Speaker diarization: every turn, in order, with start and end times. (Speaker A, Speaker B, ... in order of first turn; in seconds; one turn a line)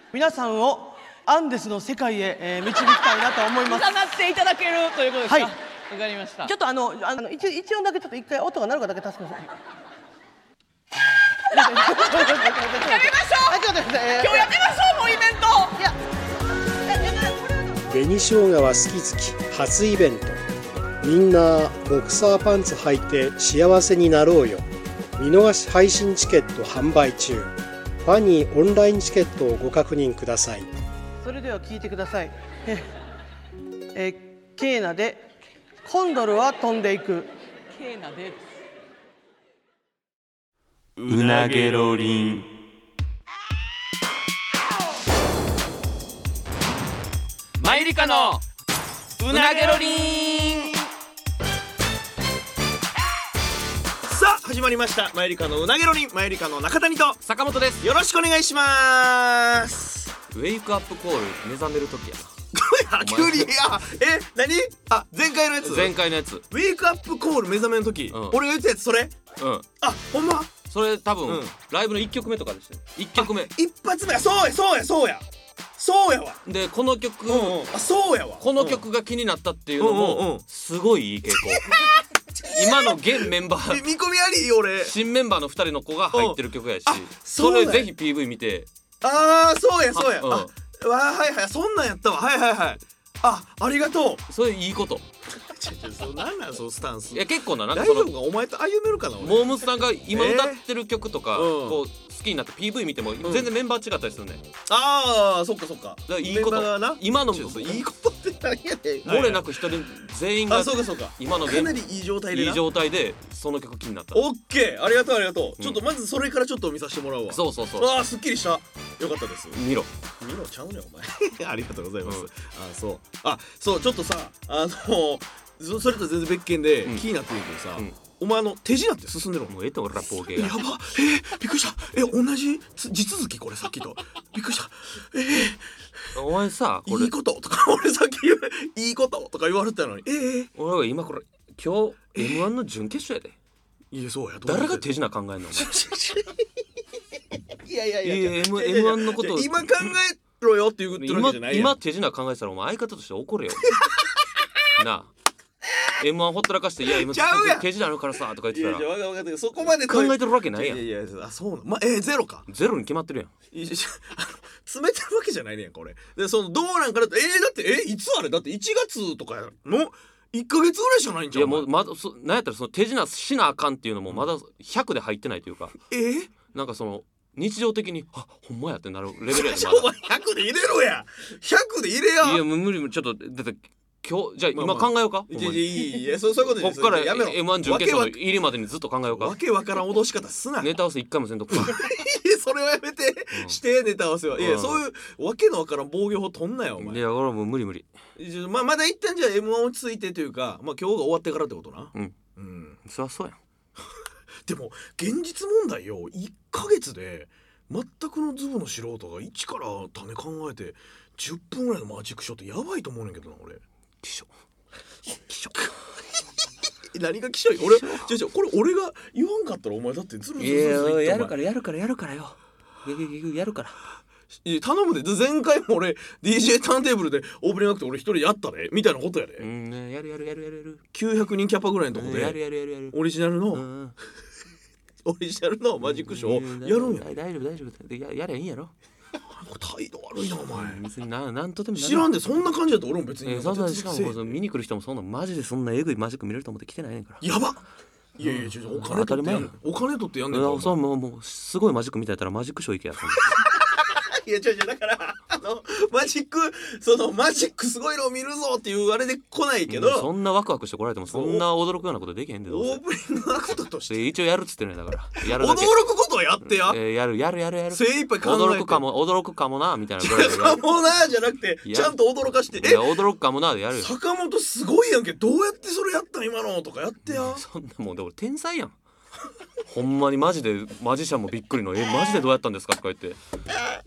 Speaker A: 0.1-4.0
Speaker B: 3.6-6.5
Speaker A: 5.2-5.5
Speaker A: 6.4-9.5
Speaker A: 11.5-14.5
Speaker B: 11.5-13.6
Speaker B: 14.2-15.8
Speaker C: 17.9-20.4
Speaker C: 21.0-24.6
Speaker C: 25.2-30.7
Speaker A: 31.2-32.9
Speaker A: 33.9-35.2
Speaker A: 35.8-37.3
Speaker B: 37.7-38.5
Speaker D: 41.0-42.0
Speaker E: 41.0-42.5
Speaker E: 47.6-48.4
Speaker D: 49.2-50.8
Speaker E: 49.2-50.7
Speaker D: 54.0-57.2
Speaker E: 57.2-57.8
Speaker D: 57.8-60.1
Speaker E: 60.3-62.3
Speaker D: 62.5-66.0
Speaker E: 63.0-63.5
Speaker E: 65.6-66.4
Speaker D: 66.5-69.1
Speaker E: 68.1-68.4
Speaker E: 69.4-69.7
Speaker D: 69.8-70.6
Speaker E: 70.7-73.5
Speaker D: 71.2-71.5
Speaker D: 73.2-75.2
Speaker D: 75.8-76.4
Speaker E: 76.5-77.6
Speaker D: 77.3-78.8
Speaker E: 78.4-81.7
Speaker D: 79.8-80.4
Speaker D: 81.4-84.9
Speaker E: 82.4-83.8
Speaker E: 84.8-88.7
Speaker D: 86.1-87.9
Speaker D: 89.0-94.2
Speaker E: 89.9-90.5
Speaker E: 94.3-95.0
Speaker D: 95.4-100.6
Speaker E: 97.1-98.1
Speaker E: 99.2-104.4
Speaker D: 101.3-101.8
Speaker D: 103.2-103.5
Speaker D: 104.7-109.5
Speaker E: 106.1-107.8
Speaker E: 109.0-111.8
Speaker D: 110.5-112.6
Speaker E: 112.3-114.2
Speaker D: 114.1-119.6
Speaker E: 117.3-118.0
Speaker E: 119.5-119.9
Speaker D: 120.2-129.5
Speaker E: 129.5-130.6
Speaker D: 130.3-136.0
Speaker E: 136.1-137.1
Speaker D: 136.9-140.5
Speaker E: 140.6-143.3
Speaker D: 142.2-142.4
Speaker D: 143.9-144.9
Speaker E: 144.4-145.8
Speaker D: 145.5-146.4
Speaker D: 147.5-151.8
Speaker E: 148.0-149.8
Speaker E: 151.0-153.8
Speaker E: 154.7-155.1
Speaker E: 155.9-158.9
Speaker D: 156.9-157.7
Speaker D: 158.5-162.5
Speaker E: 159.8-160.8
Speaker E: 162.5-163.3
Speaker D: 163.5-171.7
Speaker E: 171.3-175.8
Speaker D: 175.9-176.3
Speaker E: 176.5-179.9
Speaker D: 179.3-182.4
Speaker E: 182.2-189.4
Speaker D: 184.5-188.2
Speaker D: 189.1-190.7
Speaker E: 190.6-191.8
Speaker D: 191.5-197.0
Speaker E: 193.3-193.6
Speaker E: 194.4-194.8
Speaker E: 196.8-197.9
Speaker D: 198.2-202.8
Speaker E: 202.8-203.4
Speaker D: 204.4-213.6
Speaker E: 214.0-214.3
Speaker D: 215.3-215.7
Speaker D: 216.9-221.3
Speaker E: 217.7-218.1
Speaker E: 220.4-223.8
Speaker D: 224.4-229.4
Speaker E: 229.4-230.8
Speaker D: 230.9-232.4
Speaker E: 231.9-233.0
Speaker D: 232.9-233.7
Speaker E: 233.5-233.9
Speaker D: 235.0-237.1
Speaker E: 235.8-238.7
Speaker D: 239.3-240.8
Speaker E: 240.4-242.3
Speaker D: 241.8-244.4
Speaker E: 243.2-247.2
Speaker D: 247.2-247.6
Speaker D: 248.2-250.8
Speaker E: 248.2-249.5
Speaker E: 250.3-253.3
Speaker D: 253.2-260.1
Speaker E: 259.7-262.8
Speaker D: 261.1-261.4
Speaker D: 262.5-264.0
Speaker E: 263.9-265.8
Speaker D: 265.2-266.8
Speaker E: 266.5-270.7
Speaker D: 267.7-268.8
Speaker D: 270.0-272.9
Speaker E: 271.6-271.9
Speaker E: 272.5-273.9
Speaker D: 273.7-277.4
Speaker E: 277.1-278.8
Speaker E: 279.6-283.2